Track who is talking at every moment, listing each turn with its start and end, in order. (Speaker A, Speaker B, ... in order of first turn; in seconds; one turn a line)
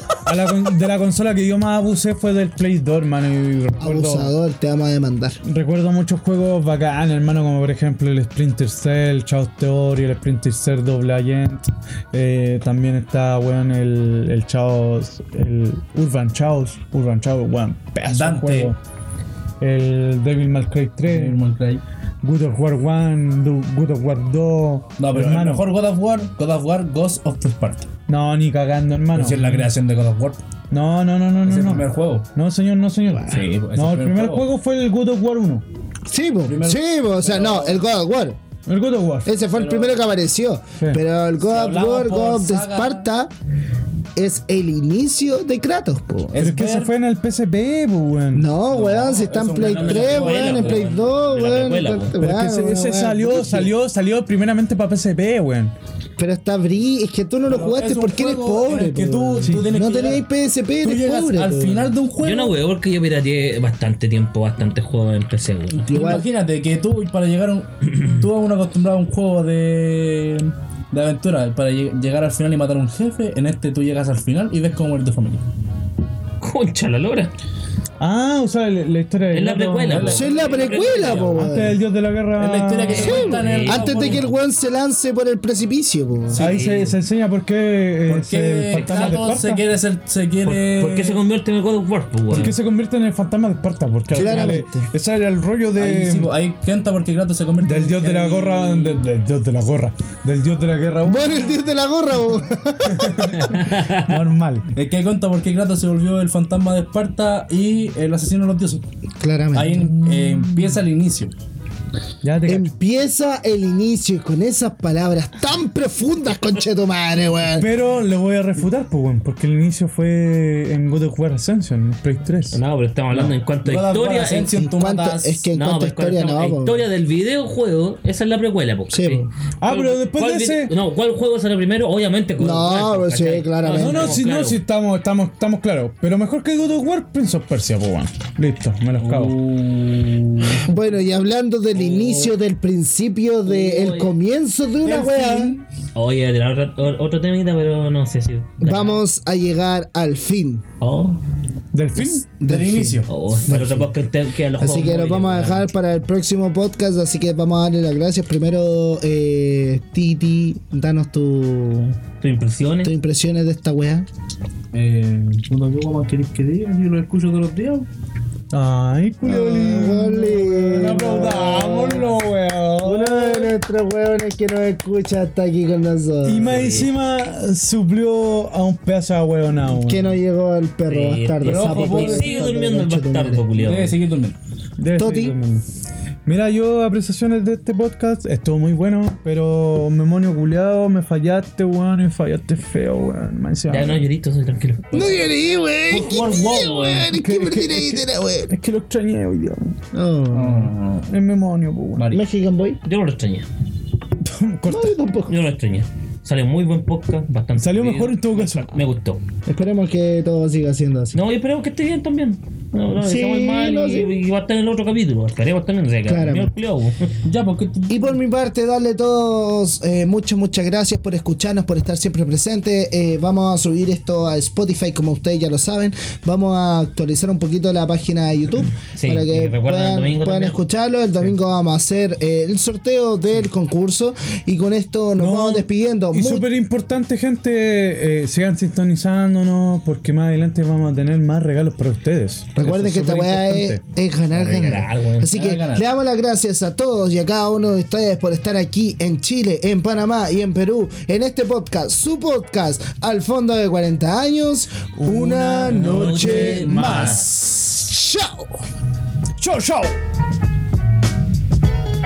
Speaker A: 0.2-4.3
Speaker B: 3.8-5.4
Speaker A: 5.4-18.8
Speaker C: 18.1-18.8
Speaker A: 19.6-21.4
Speaker C: 21.0-21.8
Speaker A: 22.2-25.7
Speaker C: 25.0-27.9
Speaker A: 28.1-29.7
Speaker C: 29.1-30.4
Speaker A: 30.7-35.6
Speaker C: 31.4-32.3
Speaker C: 33.2-34.5
Speaker B: 36.1-38.4
Speaker C: 36.5-37.8
Speaker A: 38.7-39.3
Speaker B: 39.2-43.3
Speaker C: 39.5-40.0
Speaker C: 41.4-43.1
Speaker B: 44.2-46.5
Speaker C: 46.3-46.9
Speaker A: 46.4-48.5
Speaker B: 48.3-53.7
Speaker C: 48.7-51.0
Speaker D: 49.6-52.1
Speaker A: 52.2-55.8
Speaker B: 56.2-61.9
Speaker C: 57.5-60.3
Speaker A: 59.4-59.7
Speaker C: 60.8-62.5
Speaker D: 62.2-66.1
Speaker C: 65.7-75.4
Speaker B: 65.8-66.3
Speaker D: 76.4-77.3
Speaker A: 78.0-80.2
Speaker D: 79.3-81.5
Speaker C: 79.9-80.3
Speaker B: 80.1-81.8
Speaker A: 81.2-83.2
Speaker C: 82.4-84.4
Speaker D: 82.9-84.2
Speaker B: 82.9-86.5
Speaker C: 86.3-86.8
Speaker D: 86.3-86.9
Speaker A: 86.3-89.6
Speaker C: 88.1-91.2
Speaker D: 88.7-89.4
Speaker D: 90.5-92.6
Speaker A: 92.3-96.3
Speaker C: 94.1-94.6
Speaker B: 94.1-94.9
Speaker C: 95.8-99.1
Speaker A: 97.6-101.6
Speaker B: 101.0-103.5
Speaker A: 102.9-104.7
Speaker D: 103.4-104.1
Speaker C: 104.7-108.8
Speaker B: 109.2-110.0
Speaker C: 109.5-111.3
Speaker A: 109.7-110.8
Speaker A: 112.2-112.7
Speaker B: 112.5-117.7
Speaker A: 117.5-122.6
Speaker D: 122.5-124.5
Speaker C: 123.1-125.5
Speaker B: 124.5-126.9
Speaker D: 125.5-134.6
Speaker B: 128.9-129.3
Speaker A: 129.6-130.8
Speaker B: 132.4-134.2
Speaker A: 133.7-139.4
Speaker C: 139.0-140.7
Speaker B: 140.5-145.6
Speaker D: 141.7-142.3
Speaker D: 143.4-144.1
Speaker C: 144.8-145.6
Speaker D: 145.9-149.0
Speaker B: 148.6-150.6
Speaker D: 150.8-151.2
Speaker A: 151.7-152.2
Speaker B: 152.0-153.9
Speaker C: 152.4-153.1
Speaker D: 153.1-155.7
Speaker B: 154.6-162.0
Speaker D: 162.2-162.9
Speaker B: 162.8-164.1
Speaker C: 164.7-167.9
Speaker A: 168.5-173.5
Speaker B: 169.2-172.1
Speaker B: 172.8-176.6
Speaker A: 176.2-180.2
Speaker D: 176.4-176.9
Speaker B: 179.7-183.5
Speaker D: 180.9-184.0
Speaker C: 181.4-182.6
Speaker C: 183.6-184.4
Speaker A: 184.8-185.6
Speaker B: 185.0-185.3
Speaker A: 186.3-194.0
Speaker D: 193.7-195.3
Speaker B: 194.9-198.6
Speaker D: 195.9-197.1
Speaker A: 197.0-199.8
Speaker B: 199.9-200.7
Speaker C: 200.3-201.1
Speaker A: 201.1-202.2
Speaker C: 202.0-202.2
Speaker B: 202.1-202.8
Speaker D: 202.8-203.5
Speaker A: 204.2-205.0
Speaker B: 204.7-205.4
Speaker D: 205.3-209.2
Speaker A: 207.6-208.8
Speaker B: 209.5-211.2
Speaker D: 211.1-217.0
Speaker B: 213.0-214.2
Speaker B: 216.1-216.6
Speaker C: 217.2-218.2
Speaker B: 217.9-236.5
Speaker D: 228.9-230.6
Speaker A: 235.2-243.8
Speaker B: 242.6-258.6
Speaker D: 244.3-245.3
Speaker C: 245.3-245.9
Speaker A: 255.0-257.2
Speaker D: 255.8-257.3
Speaker A: 259.4-260.0